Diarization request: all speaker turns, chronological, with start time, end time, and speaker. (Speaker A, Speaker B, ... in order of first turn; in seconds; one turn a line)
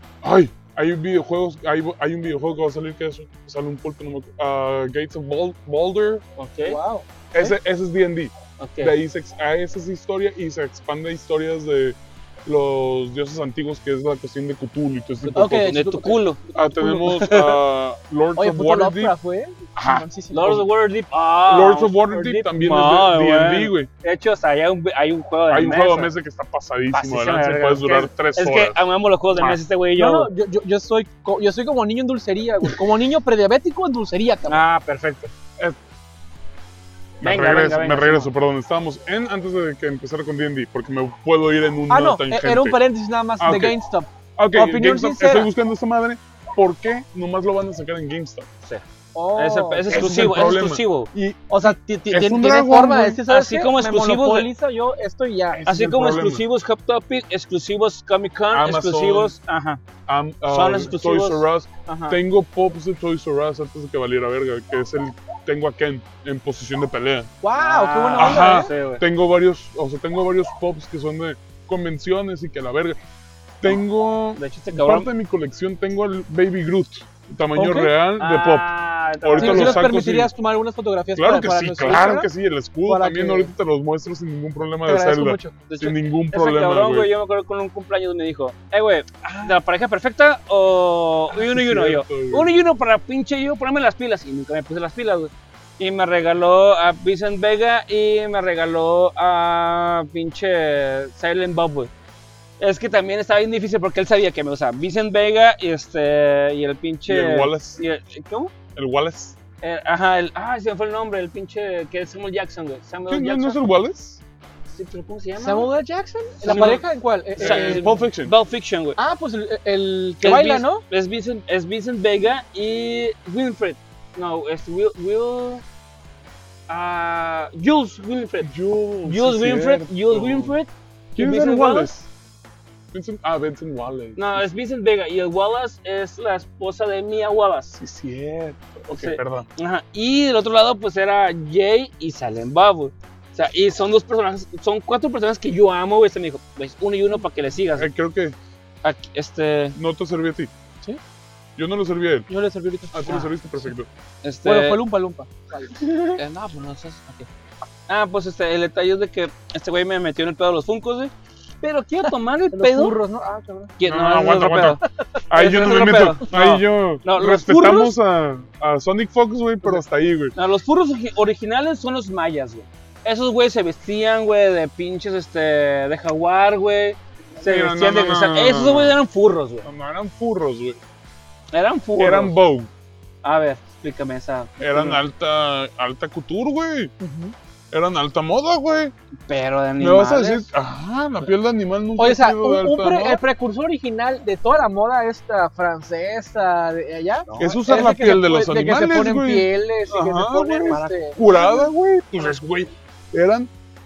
Speaker A: 0.2-6.2
Speaker B: 6.4-6.8
Speaker C: 6.6-7.5
Speaker A: 7.3-15.8
Speaker B: 8.6-8.9
Speaker C: 15.3-17.1
Speaker B: 15.6-16.4
Speaker A: 16.5-19.1
Speaker B: 17.0-17.6
Speaker C: 18.4-20.6
Speaker A: 19.8-20.6
Speaker B: 20.3-26.1
Speaker A: 21.5-23.9
Speaker A: 25.5-28.8
Speaker B: 26.9-30.3
Speaker A: 29.3-29.6
Speaker C: 30.0-34.6
Speaker B: 34.5-35.3
Speaker A: 37.2-42.8
Speaker B: 37.2-38.3
Speaker C: 41.9-45.5
Speaker A: 43.4-43.8
Speaker A: 44.4-48.5
Speaker C: 49.1-50.3
Speaker B: 49.4-51.1
Speaker A: 49.9-53.2
Speaker C: 51.5-55.6
Speaker B: 53.3-54.5
Speaker A: 55.5-56.4
Speaker B: 55.7-59.8
Speaker A: 58.5-59.3
Speaker A: 60.1-67.3
Speaker B: 60.5-62.2
Speaker C: 67.4-68.7
Speaker B: 67.6-69.0
Speaker A: 68.2-73.0
Speaker A: 73.6-78.7
Speaker B: 74.4-75.1
Speaker C: 77.6-77.9
Speaker B: 78.2-79.8
Speaker A: 79.2-80.3
Speaker C: 79.4-82.3
Speaker A: 81.2-87.1
Speaker C: 82.9-83.5
Speaker C: 84.9-85.5
Speaker B: 85.7-101.9
Speaker A: 89.2-89.6
Speaker A: 91.3-92.5
Speaker B: 102.6-108.5
Speaker A: 107.1-107.8
Speaker A: 108.8-109.4
Speaker B: 109.6-113.6
Speaker A: 113.1-114.2
Speaker B: 114.7-115.7
Speaker C: 115.4-117.9
Speaker B: 116.4-116.8
Speaker A: 116.4-116.8
Speaker A: 117.4-118.3
Speaker B: 117.4-119.0
Speaker C: 119.0-120.8
Speaker B: 120.2-125.6
Speaker B: 126.7-128.5
Speaker A: 128.4-130.6
Speaker B: 129.1-131.9
Speaker A: 131.2-132.1
Speaker A: 132.9-134.4
Speaker B: 134.2-137.8
Speaker A: 137.8-139.5
Speaker B: 138.9-147.9
Speaker A: 147.8-148.4
Speaker B: 148.8-149.8
Speaker A: 149.8-150.5
Speaker A: 151.6-152.3
Speaker C: 152.3-153.3
Speaker A: 152.9-153.9
Speaker B: 154.2-154.8
Speaker C: 154.4-156.1
Speaker B: 155.8-157.3
Speaker B: 157.9-163.0
Speaker C: 162.5-163.7
Speaker B: 163.8-168.0
Speaker A: 163.8-170.3
Speaker B: 170.3-179.7
Speaker A: 177.4-179.0
Speaker A: 179.6-180.8
Speaker B: 181.5-182.3
Speaker A: 182.0-182.7
Speaker B: 183.2-185.0
Speaker A: 184.6-186.9
Speaker C: 187.0-187.3
Speaker A: 187.7-188.9
Speaker B: 189.3-190.5
Speaker A: 189.8-193.2
Speaker C: 192.0-201.2
Speaker B: 197.3-197.6
Speaker A: 197.4-203.5
Speaker B: 200.7-201.4